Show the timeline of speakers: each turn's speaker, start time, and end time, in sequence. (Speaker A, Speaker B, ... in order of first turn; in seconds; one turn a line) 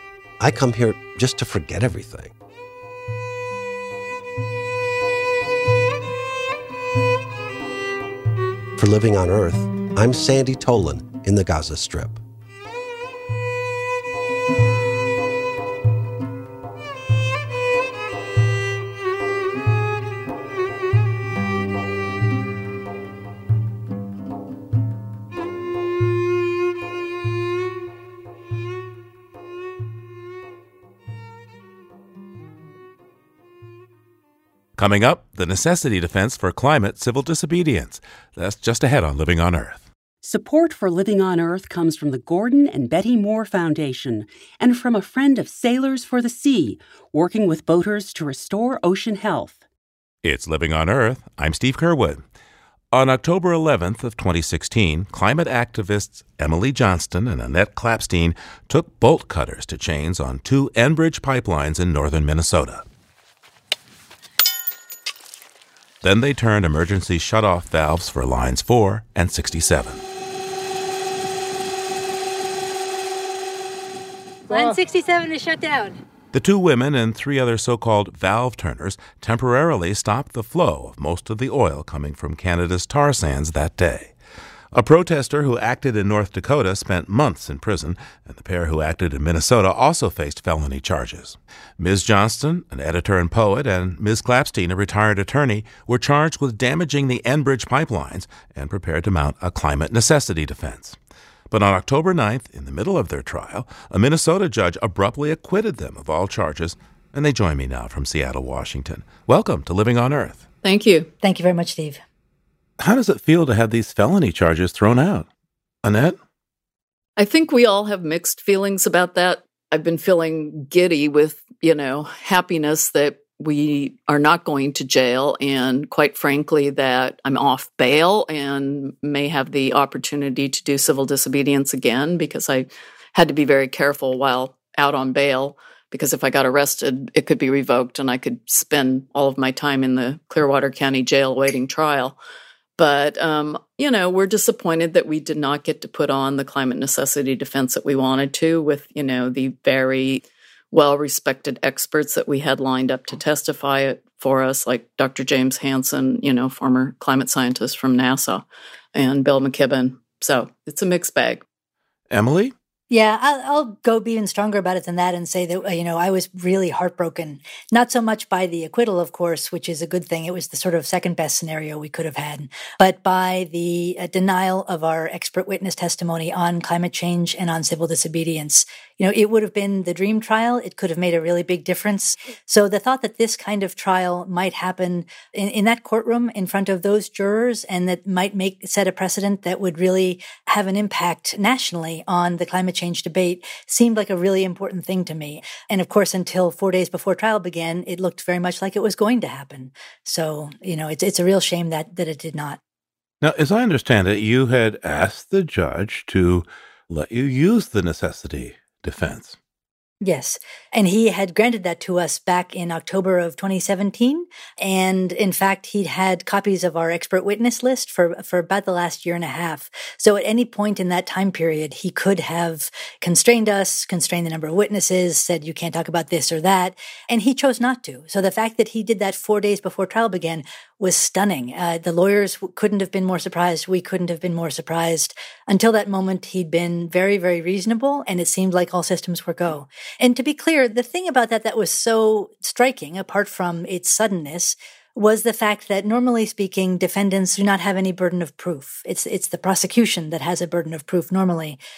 Speaker A: 0.4-2.3
Speaker A: 8.8-12.2
Speaker B: 34.8-39.9
Speaker C: 40.2-49.6
Speaker B: 50.2-52.2
Speaker B: 52.9-62.9
Speaker B: 66.0-70.0
Speaker D: 74.5-76.0
Speaker B: 76.3-84.1
Speaker B: 84.7-101.0
Speaker B: 101.5-110.4
Speaker E: 110.6-111.1
Speaker D: 111.2-112.0
Speaker B: 112.8-115.3
Speaker B: 115.8-116.2
Speaker E: 117.2-142.2
Speaker E: 142.8-161.4
Speaker B: 162.1-162.5
Speaker D: 162.9-202.6
Speaker B: 203.2-209.4
Speaker D: 210.0-251.6